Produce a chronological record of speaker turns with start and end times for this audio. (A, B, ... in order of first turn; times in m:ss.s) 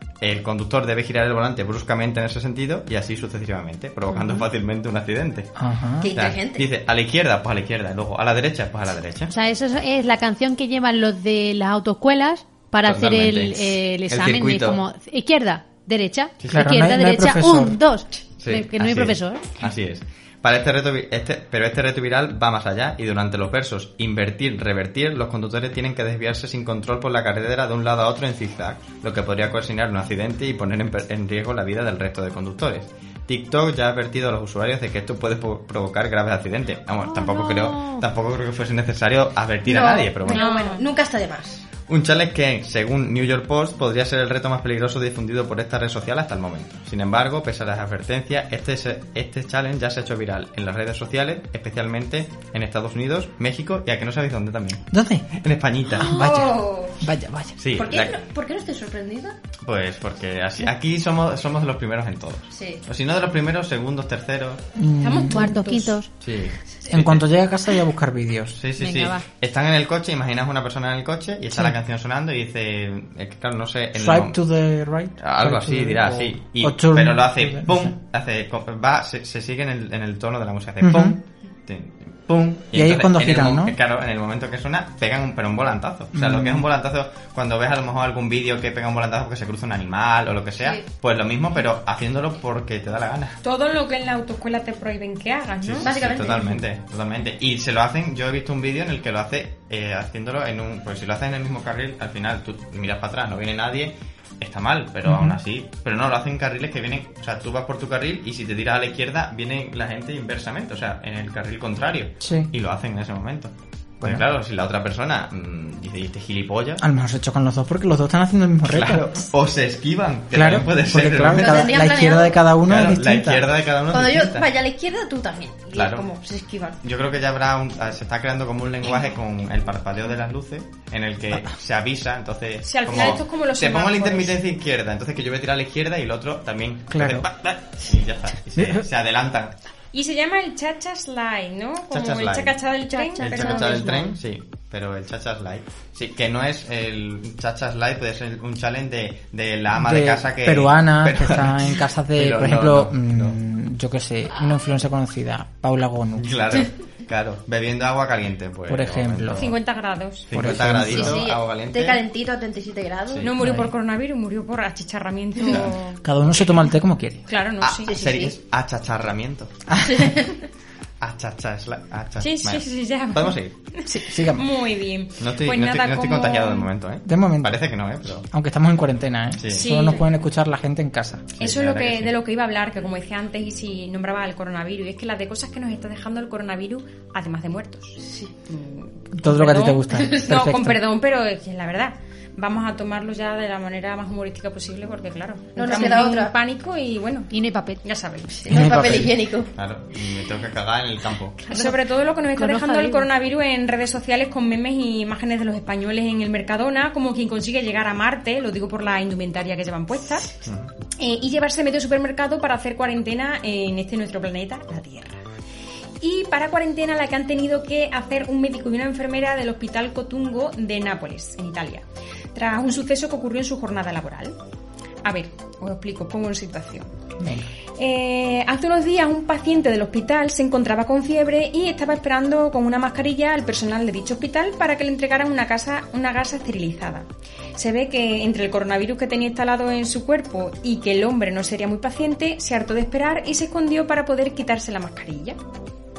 0:00.2-0:05.5 A
0:05.6-0:06.1 B
0:06.0-0:06.7 C
0:06.2-0:09.3 A
0:09.3-0:19.5 D
0:12.8-0:14.8 A
0:16.5-0:17.8 B
0:18.4-0:40.5 A
0:37.1-0:38.0 D
0:39.6-0:41.6 C
0:40.3-0:40.8 E
0:41.9-0:56.2 A
0:54.9-0:55.3 B
0:55.9-0:57.6 B
0:56.0-0:57.0 C
0:57.6-0:58.2 A
0:57.8-0:59.3 C
0:59.6-1:04.6 A
1:02.5-1:02.8 C
1:04.8-1:05.5 B
1:05.0-1:06.0 E
1:05.2-1:06.1 D
1:06.2-1:07.3 A
1:06.8-1:08.6 B
1:08.5-1:14.3 A
1:08.8-1:09.2 D
1:11.5-1:11.8 B
1:14.0-1:17.9 B
1:15.2-1:33.4 A
1:20.8-1:21.2 B
1:22.7-1:23.8 B
1:26.1-1:26.6 B
1:33.4-1:35.9 E
1:35.6-1:56.8 A
1:35.8-1:36.6 C
1:45.1-1:45.4 B
1:52.2-1:52.5 B
1:56.8-1:59.0 B
1:58.7-2:01.8 A
2:00.3-2:03.5 B
2:01.3-2:02.4 C
2:02.6-2:04.5 A
2:03.9-2:06.8 C
2:05.7-2:06.1 A
2:06.8-2:19.6 A
2:12.6-2:14.4 E
2:16.9-2:17.3 B
2:18.6-2:18.9 B
2:19.9-2:24.0 E
2:21.9-2:22.6 A
2:23.0-2:24.1 D
2:23.2-2:33.4 A
2:29.8-2:36.3 B
2:36.2-2:39.6 A
2:38.7-2:39.4 B
2:39.4-2:40.3 E
2:40.3-2:42.0 A
2:40.3-2:41.2 B
2:40.9-2:43.3 C
2:43.1-2:43.4 A
2:43.2-2:46.0 E
2:43.4-2:43.7 B
2:45.4-2:45.6 C
2:46.0-2:47.2 B
2:47.3-2:47.9 E
2:47.6-2:49.5 A
2:47.8-2:48.4 C
2:49.7-2:50.1 B
2:49.9-2:50.4 C
2:51.0-2:53.5 A
2:52.2-2:56.7 E
2:53.9-2:54.5 B
2:55.2-2:58.2 A
2:57.0-2:57.6 B
2:58.3-3:01.2 B
2:59.4-2:59.8 A
2:59.5-3:00.1 E
3:01.4-3:02.1 A
3:01.4-3:18.5 E
3:08.0-3:08.3 C
3:09.1-3:10.8 B
3:15.6-3:16.3 C
3:17.3-3:17.8 D
3:18.4-3:19.5 C
3:18.5-3:19.1 B
3:19.6-3:21.5 A
3:21.5-3:21.8 D
3:21.5-3:30.2 E
3:22.4-3:23.1 D
3:30.4-3:30.7 A
3:31.0-3:35.2 E
3:36.0-3:44.4 E
3:45.0-3:46.9 E
3:47.2-3:47.5 B
3:47.8-4:05.4 E